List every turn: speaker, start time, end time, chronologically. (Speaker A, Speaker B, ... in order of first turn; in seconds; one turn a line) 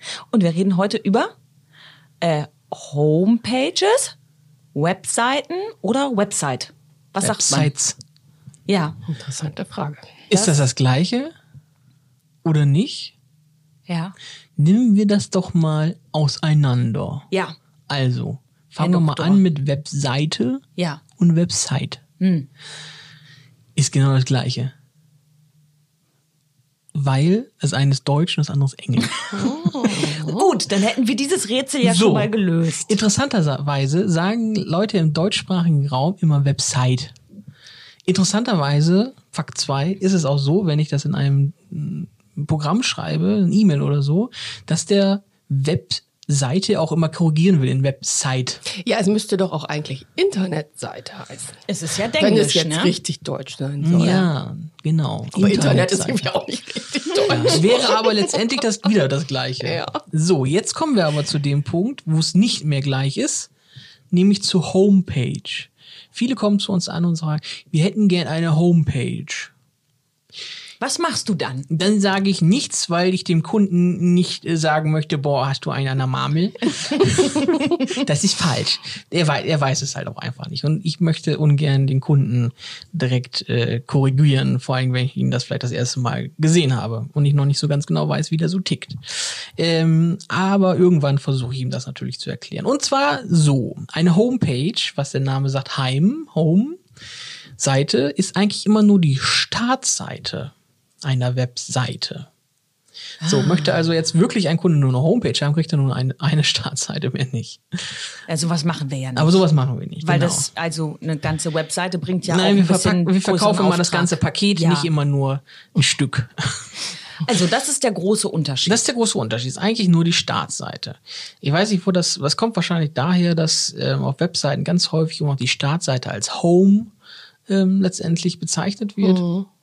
Speaker A: 0.3-1.3
Speaker A: 2.2-4.1
Speaker A: 4.7-7.7
Speaker B: 7.2-8.0
Speaker A: 8.7-9.0
Speaker C: 9.1-10.2
Speaker B: 10.3-11.3
Speaker B: 12.4-13.1
Speaker A: 13.9-14.1
Speaker B: 14.6-17.3
Speaker B: 17.9-20.6
Speaker A: 18.8-19.4
Speaker A: 20.8-21.0
Speaker B: 21.2-22.0
Speaker A: 22.2-22.5
Speaker B: 23.8-24.7
Speaker B: 26.9-29.6
Speaker C: 29.4-30.4
Speaker A: 29.8-33.0
Speaker B: 31.8-32.3
Speaker B: 32.8-37.1
Speaker B: 38.0-48.6
Speaker C: 48.7-51.6
Speaker A: 51.6-52.9
Speaker C: 52.2-54.2
Speaker B: 53.8-56.3
Speaker A: 54.0-54.3
Speaker C: 55.3-58.1
Speaker B: 57.2-63.5
Speaker C: 59.6-60.0
Speaker B: 64.1-69.5
Speaker A: 70.8-71.7
Speaker B: 71.7-96.8
Speaker B: 97.6-102.3
Speaker A: 103.2-103.7
Speaker B: 103.2-107.9
Speaker A: 108.3-109.4
Speaker B: 109.2-110.5
Speaker A: 110.0-114.9
Speaker B: 112.3-116.7
Speaker A: 117.2-118.8
Speaker B: 118.7-126.9
Speaker B: 127.5-129.2
Speaker C: 129.0-129.4